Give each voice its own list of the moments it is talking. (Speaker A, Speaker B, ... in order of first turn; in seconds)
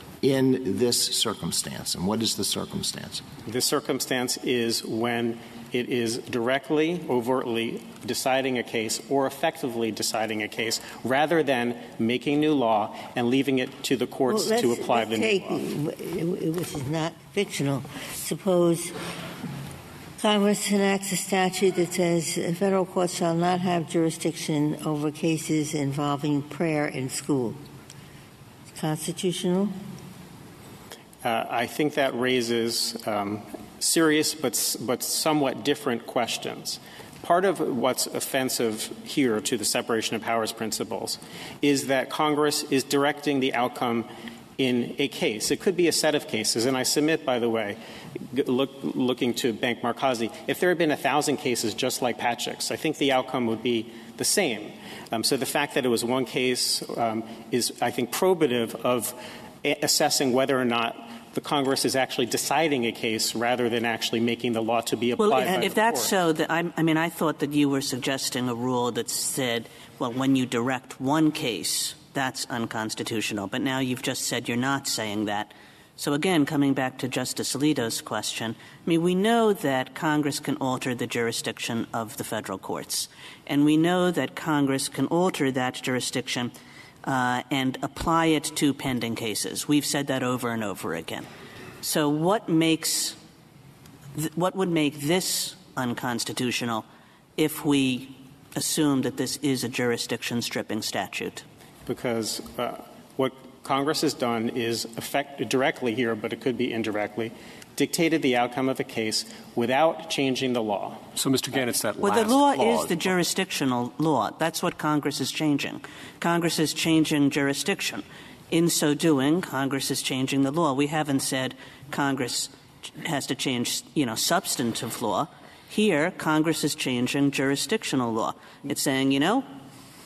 Speaker A: 0.2-3.2
Speaker B: 3.5-15.6, 31.2-47.8, 48.3-66.1, 101.9-111.0
Speaker C: 14.3-19.0, 20.2-27.6, 28.8-29.8
Speaker D: 65.2-86.5, 87.0-91.3, 91.8-93.2, 94.2-96.9, 97.4-101.4, 112.0-129.5
Speaker E: 111.2-113.2